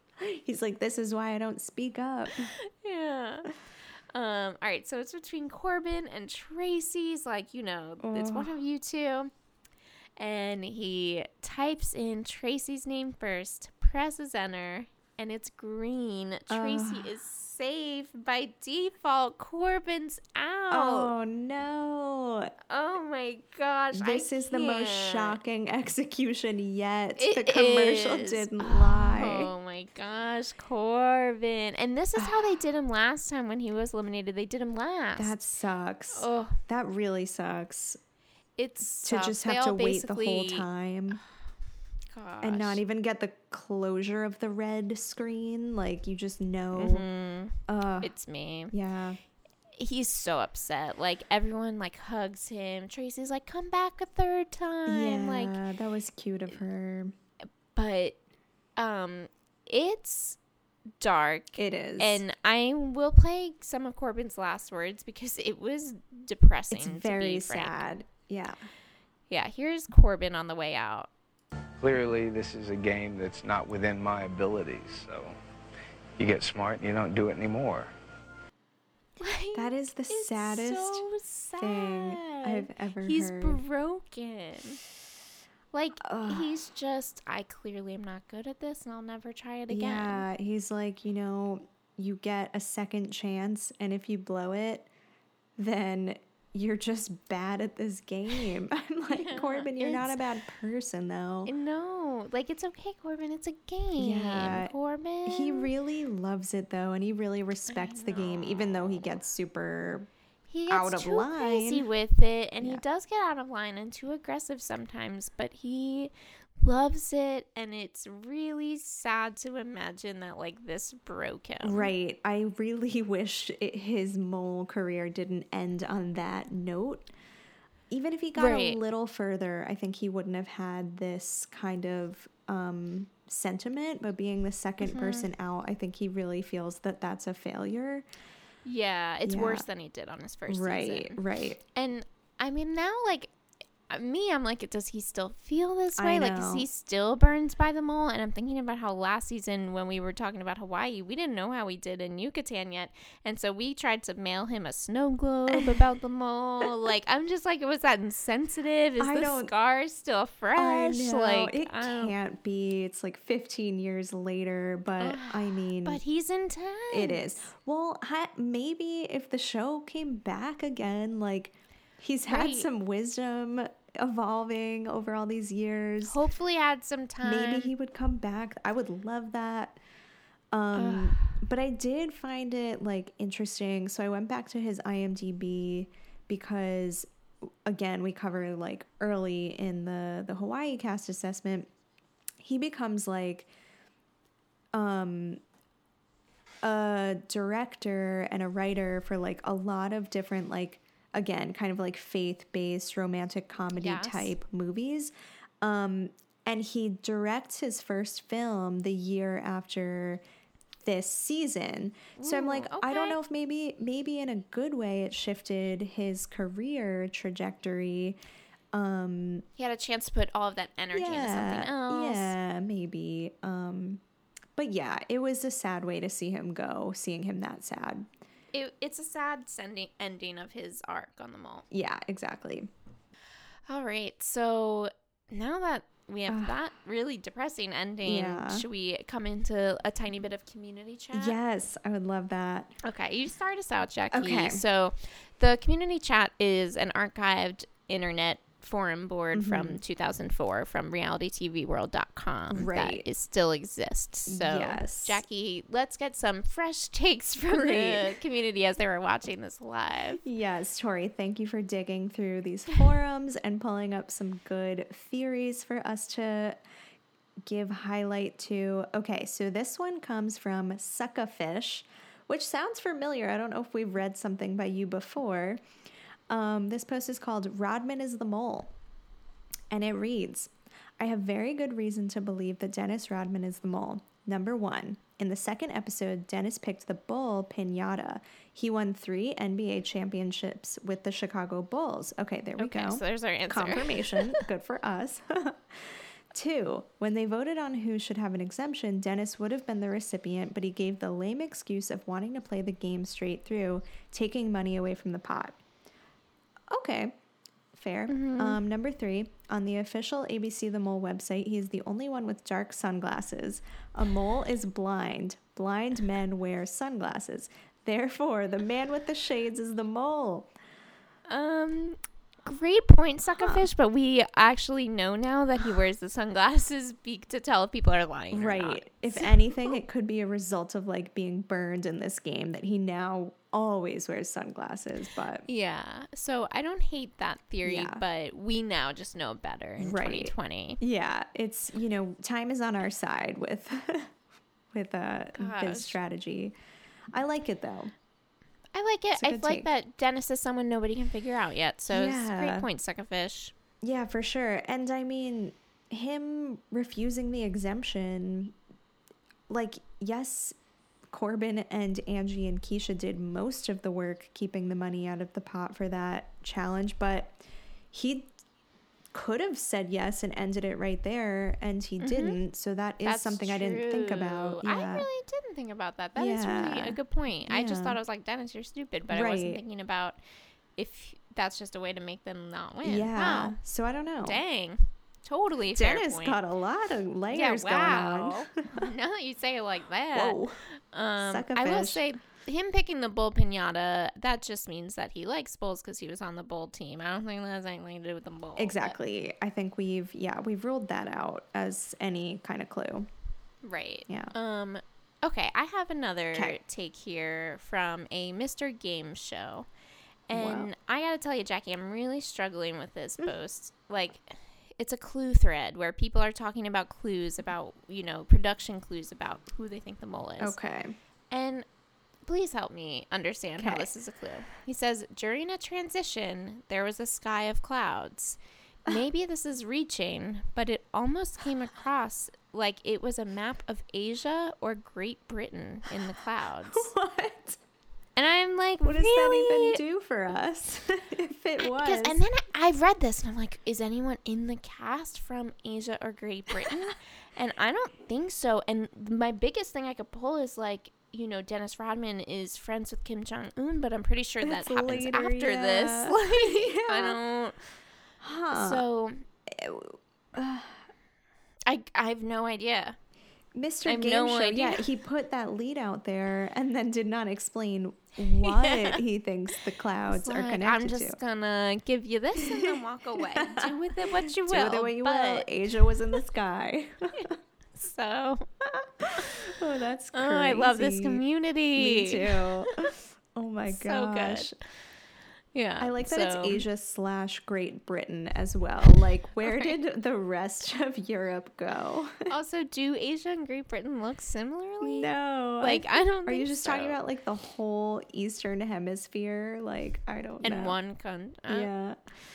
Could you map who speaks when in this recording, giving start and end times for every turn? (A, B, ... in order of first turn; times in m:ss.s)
0:00.2-0:02.5 A
0:02.4-0:03.5 B
0:04.1-0:09.3 B
0:08.0-0:08.5 A
0:10.2-0:21.1 B
0:16.5-0:17.1 A
0:20.7-0:22.5 A
0:22.7-0:25.4 B
0:23.9-0:29.5 A
0:27.2-0:35.4 B
0:32.2-0:32.6 A
0:35.2-0:38.0 A
0:36.1-0:36.6 B
0:38.6-0:40.7 B
0:39.0-0:41.2 A
0:42.1-0:42.8 B
0:42.4-0:47.0 A
0:46.7-0:48.7 B
0:47.7-0:48.1 A
0:48.7-0:49.2 A
0:49.8-0:55.6 B
0:54.8-0:57.1 A
0:57.7-0:58.2 B
0:58.8-1:00.4 B
1:01.0-1:07.8 B
1:01.6-1:02.2 A
1:06.7-1:08.7 A
1:09.3-1:11.1 B
1:11.8-1:15.4 C
1:16.2-1:17.9 C
1:19.2-1:24.8 B
1:19.5-1:23.6 A
1:25.7-1:30.2 B
1:26.0-1:26.5 A
1:29.7-1:34.9 A
1:35.6-1:41.5 A
1:39.1-1:40.2 B
1:41.4-1:45.7 B
1:44.0-1:44.7 A
1:45.2-1:50.1 A
1:47.7-1:49.0 B
1:50.5-2:01.9 B
1:50.7-1:51.8 A
2:01.6-2:07.1 A
2:07.9-2:18.1 A
2:08.4-2:08.8 B
2:14.8-2:15.3 B
2:18.6-2:21.2 B
2:19.2-2:19.6 A
2:20.5-2:21.6 A
2:21.7-2:23.3 B
2:23.9-2:42.2 B
2:26.0-2:26.7 A
2:39.0-2:39.5 A
2:40.6-2:46.0 A
2:45.0-2:47.4 B
2:46.9-2:56.2 A
2:52.3-2:52.7 B
2:56.0-2:57.7 B
2:57.2-2:59.8 A
3:00.5-3:07.1 A
3:00.7-3:01.3 B
3:07.6-3:11.7 A
3:12.4-3:13.5 A
3:14.7-3:15.4 A
3:16.6-3:30.2 A
3:23.8-3:24.3 B
3:30.8-3:38.2 A
3:32.2-3:33.2 B
3:38.7-3:39.4 A
3:39.6-3:42.3 B
3:40.9-3:44.0 A
3:44.6-3:48.1 A
3:48.5-3:51.6 B
3:51.7-3:52.7 A
3:53.7-4:01.4 B
3:56.3-3:56.6 A
3:58.0-3:58.6 A
4:01.1-4:02.7 A
4:02.8-4:20.2 B
4:04.1-4:04.6 A
4:09.3-4:09.8 A
4:12.5-4:13.1 A
4:14.3-4:15.2 A
4:17.5-4:18.2 A
4:20.2-4:26.6 A
4:27.4-4:35.6 A
4:36.3-4:38.7 A
4:39.7-5:05.6 A
4:52.6-4:54.4 B
5:06.7-5:07.2 A
5:07.7-5:20.5 A
5:08.1-5:08.6 B
5:21.3-5:29.7 B
5:23.4-5:23.7 A
5:28.3-5:35.4 A
5:35.5-5:40.8 B
5:37.6-5:38.0 A
5:39.8-5:44.1 A
5:44.7-5:46.6 A
5:45.4-5:46.0 B
5:47.1-5:47.9 A
5:48.7-5:53.5 B
5:49.2-5:49.7 A
5:51.9-5:52.7 A
5:53.8-5:58.6 A
5:59.5-6:00.6 A
6:01.1-6:07.4 A
6:07.9-6:08.3 A
6:09.1-6:15.1 A
6:12.0-6:12.4 B
6:13.0-6:20.2 B
6:16.2-6:18.0 A
6:19.1-6:19.6 A
6:20.8-6:23.6 B
6:22.8-6:24.4 A
6:24.2-6:26.4 B
6:25.7-6:28.8 A
6:27.3-6:39.0 B
6:30.1-6:30.6 A
6:31.2-6:32.0 A
6:38.6-6:43.1 A
6:43.6-6:49.7 B
6:44.1-6:44.3 A
6:46.3-6:46.6 A
6:50.3-7:00.6 B
6:50.3-6:50.7 A
7:00.4-7:01.0 A
7:01.3-7:01.6 B
7:02.2-7:16.9 B
7:03.6-7:03.9 A
7:16.7-7:17.6 A
7:18.2-7:19.8 B
7:18.8-7:22.2 A
7:21.6-7:37.6 B
7:34.4-7:37.2 A
7:38.2-7:38.8 A
7:38.5-7:39.2 B
7:39.5-7:40.8 A
7:41.7-7:43.0 B
7:43.5-7:51.2 A
7:43.8-7:44.8 B
7:48.3-7:49.0 B
7:50.1-7:55.5 B
7:52.4-7:52.8 A
7:53.3-7:53.7 A
7:54.3-7:57.3 A
7:57.2-7:58.5 B
7:58.6-8:01.2 A
8:00.1-8:02.5 B
8:01.7-8:04.5 A
8:03.7-8:04.5 B
8:05.5-8:06.6 B
8:05.8-8:12.2 A
8:09.4-8:09.8 B
8:12.3-8:17.0 B
8:14.8-8:20.8 A
8:20.4-8:21.7 B
8:21.5-8:22.0 A